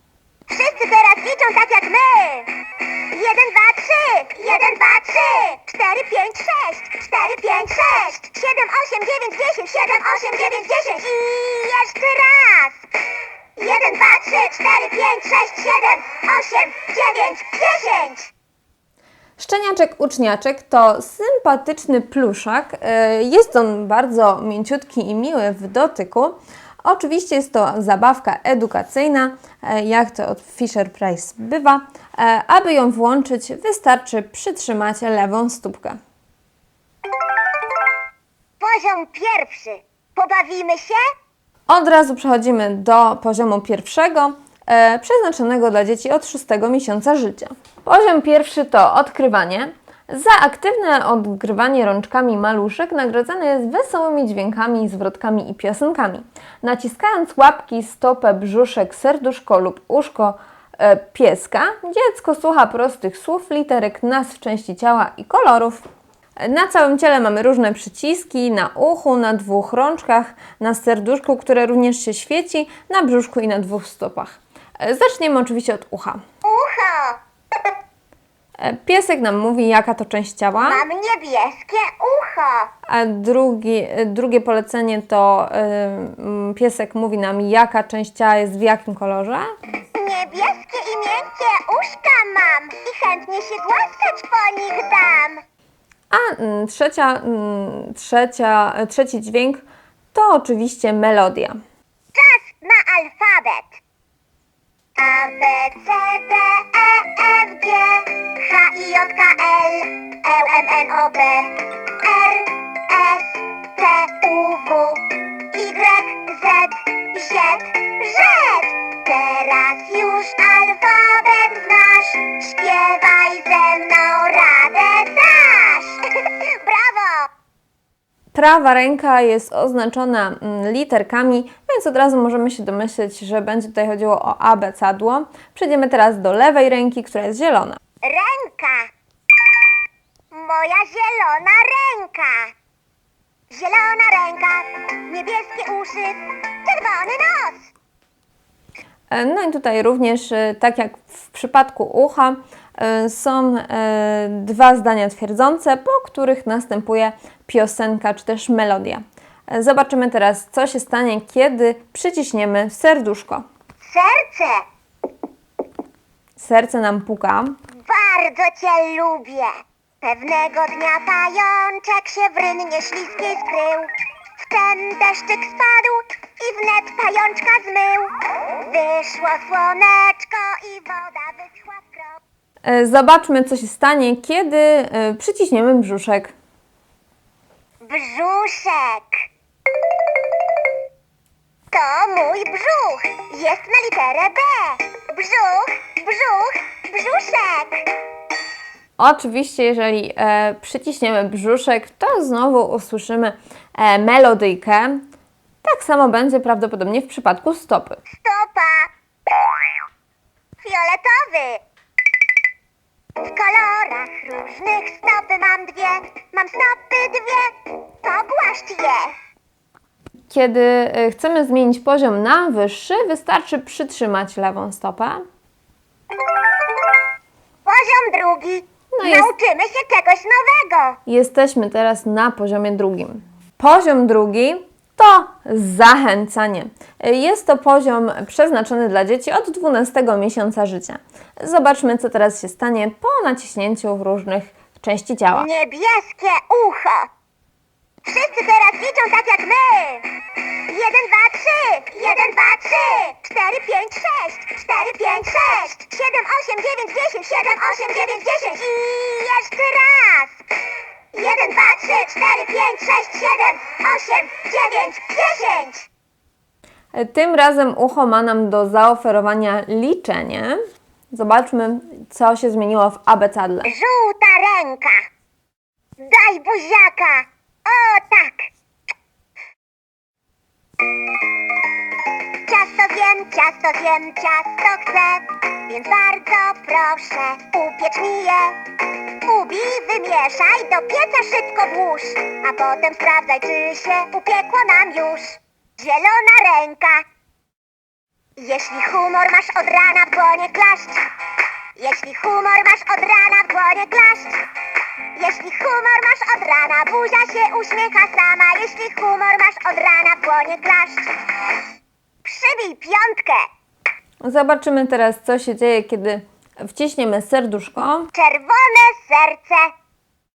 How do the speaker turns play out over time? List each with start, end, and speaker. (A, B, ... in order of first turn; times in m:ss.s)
0:00.5-0:02.5 A
0:03.1-0:12.8 A
0:13.6-0:18.3 A
0:19.4-0:36.0 B
0:38.6-0:41.0 A
0:41.7-1:05.8 B
1:06.4-1:16.2 B
1:16.4-1:17.2 A
1:18.6-1:20.8 B
1:20.6-1:22.7 A
1:22.9-1:29.5 B
1:29.9-1:35.4 A
1:36.1-1:41.6 B
1:42.1-1:43.8 A
1:45.0-2:07.3 A
2:08.3-2:17.8 B
2:18.0-2:18.9 A
2:20.3-2:22.5 A
2:23.5-2:27.7 A
2:29.1-2:43.4 B
2:43.8-2:44.6 A
2:46.4-2:47.6 B
2:47.7-2:58.1 A
2:58.6-3:02.2 A
3:02.6-3:06.3 B
3:07.8-3:09.2 A
3:11.7-3:17.9 A
3:19.0-3:25.0 B
3:25.6-3:28.0 B
3:28.1-3:28.9 A
3:30.6-3:31.6 A
3:33.2-3:39.1 A
3:40.3-3:45.2 B
3:47.6-3:51.0 A
3:48.9-3:49.3 B
3:51.0-4:05.5 B
4:05.3-4:07.1 A
4:08.0-4:10.1 A
4:10.7-4:20.4 A
4:21.1-4:25.9 A
4:26.9-4:30.6 B
4:31.1-4:33.7 B
4:33.6-4:35.0 A
4:36.0-4:38.5 A
4:42.5-4:48.6 A
4:49.2-4:57.0 A
4:58.4-5:01.0 A
5:01.8-5:04.4 A
5:05.2-5:11.1 A
5:12.2-5:13.5 A
5:14.2-5:18.1 B
5:18.1-5:19.7 A